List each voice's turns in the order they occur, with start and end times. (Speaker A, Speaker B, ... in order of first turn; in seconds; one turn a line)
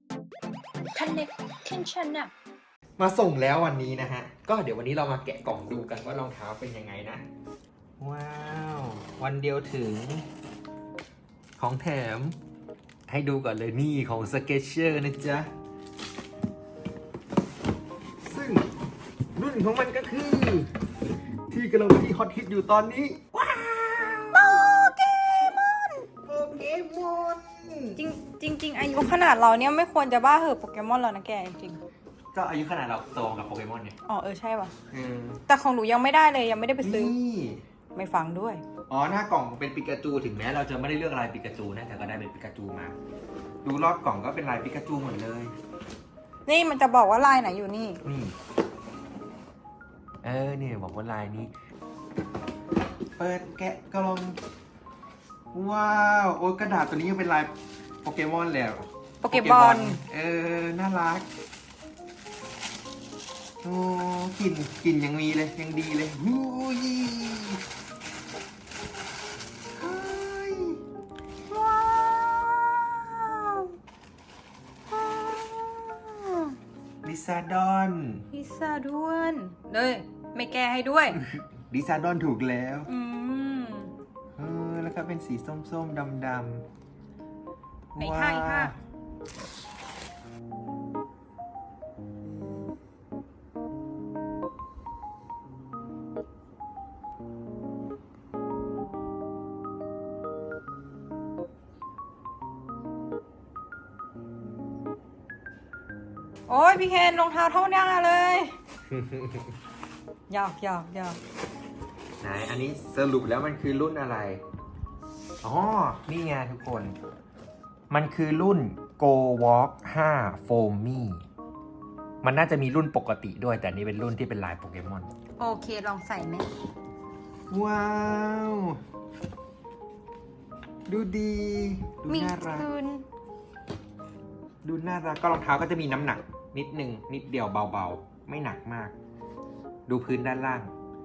Speaker A: 0.9-2.3
Speaker B: 3.0-7.2
Speaker B: 8.0-10.2
Speaker B: 11.6-12.3
Speaker B: 13.1-15.5
Speaker B: 18.2-18.7
Speaker B: 19.4-20.7
Speaker B: 21.5-24.8
Speaker A: 24.3-26.1
Speaker B: 26.2-28.0
Speaker A: 28.0-31.8
Speaker B: 32.3-34.0
Speaker A: 34.1-34.7
Speaker B: 34.9-35.4
Speaker A: 35.5-37.1
Speaker B: 36.8-37.6
Speaker A: 37.9-38.6
Speaker B: 38.9-42.9
Speaker B: 43.6-45.5
Speaker A: 46.5-48.0
Speaker B: 48.0-48.3
Speaker B: 50.2-51.5
Speaker B: 53.2-54.4
Speaker B: 55.5-61.3
Speaker A: 59.2-60.0
Speaker B: 63.6-67.6
Speaker B: 69.8-70.8
Speaker A: 71.5-73.7
Speaker A: 74.9-76.5
Speaker B: 77.0-78.2
Speaker A: 78.3-81.2
Speaker B: 81.2-82.9
Speaker A: 82.9-83.9
Speaker B: 84.4-86.6
Speaker B: 87.9-88.7
Speaker A: 88.0-88.7
Speaker A: 106.5-108.5
Speaker B: 108.9-109.5
Speaker A: 110.3-111.2
Speaker B: 112.2-114.4
Speaker B: 115.4-116.9
Speaker B: 117.9-121.2
Speaker B: 122.2-125.1
Speaker A: 125.4-126.5
Speaker B: 127.5-128.8
Speaker B: 130.9-132.7
Speaker A: 132.1-133.0
Speaker B: 134.6-138.9
Speaker B: 139.9-140.7